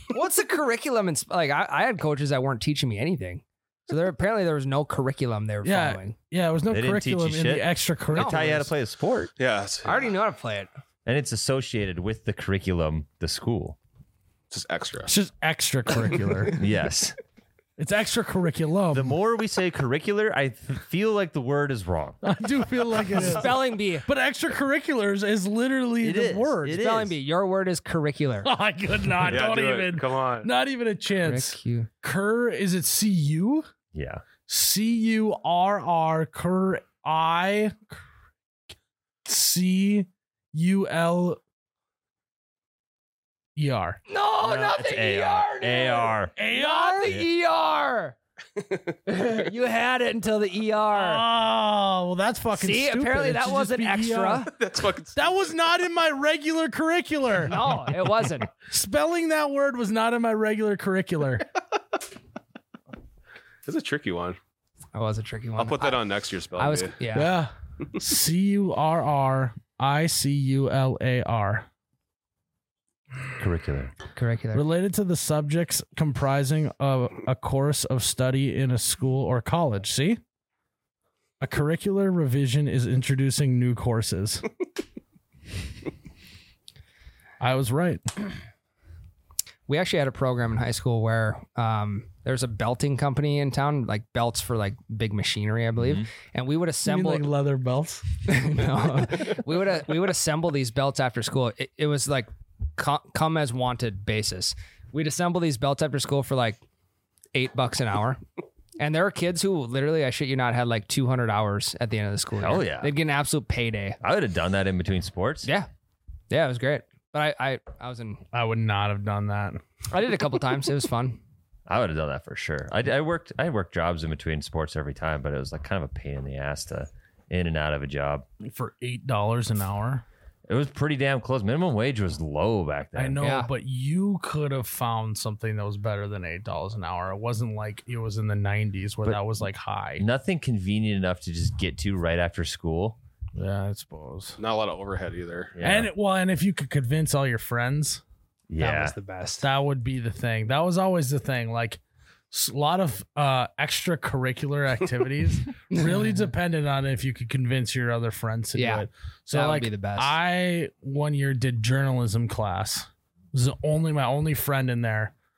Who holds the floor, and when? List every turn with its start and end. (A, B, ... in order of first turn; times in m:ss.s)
0:00.1-0:06.1 A
0:05.6-0:08.7 B
0:06.7-0:09.3 C
0:08.1-0:08.4 A
0:09.4-0:10.1 D
0:09.8-0:10.7 A
0:11.0-0:13.8 C
0:14.5-0:15.1 D
0:15.1-0:16.6 B
0:16.5-0:17.2 C
0:17.8-0:19.2 B
0:18.9-0:22.2 C
0:22.2-0:26.8 B
0:23.1-0:24.1 A
0:26.0-0:27.2 C
0:26.7-0:28.5 A
0:28.4-0:33.7 B
0:29.3-0:30.5 D
0:31.2-0:31.9 A
0:33.9-0:34.2 C
0:34.5-0:37.9 B
0:39.2-0:41.4 B
0:43.6-0:44.0 B
0:44.1-0:48.1 A
0:44.4-0:46.3 C
0:46.4-0:47.1 B
0:49.1-0:51.3 A
0:50.9-0:54.5 B
0:52.6-0:54.5 A
0:54.5-0:55.2 D
0:55.1-0:58.0 B
0:57.4-0:58.5 A
0:58.5-1:01.4 B
1:03.6-1:04.4 D
1:04.9-1:07.3 A
1:05.6-1:06.9 D
1:07.1-1:11.7 B
1:13.4-1:13.9 C
1:14.1-1:14.6 A
1:14.5-1:20.2 B
1:21.4-1:24.4 B
1:27.4-1:28.0 B
1:29.7-1:37.3 A
1:35.8-1:36.1 C
1:36.8-1:38.2 B
1:38.3-1:46.6 A
1:47.3-1:48.2 A
1:48.8-1:54.0 A
1:52.4-1:52.9 C
1:54.0-1:55.5 C
1:56.3-1:58.2 A
1:58.3-1:59.6 B
1:59.9-2:01.2 A
2:01.7-2:08.2 C
2:08.4-2:10.0 B
2:10.5-2:13.2 C
2:13.0-2:20.0 B
2:13.2-2:13.5 A
2:20.0-2:23.0 C
2:23.4-2:24.4 B
2:24.4-2:25.6 D
2:25.6-2:25.9 C
2:25.6-2:28.0 B
2:28.5-2:29.0 C
2:28.6-2:29.4 A
2:29.4-2:31.8 B
2:32.3-2:45.1 B
2:35.8-2:36.0 A
2:38.6-2:40.2 A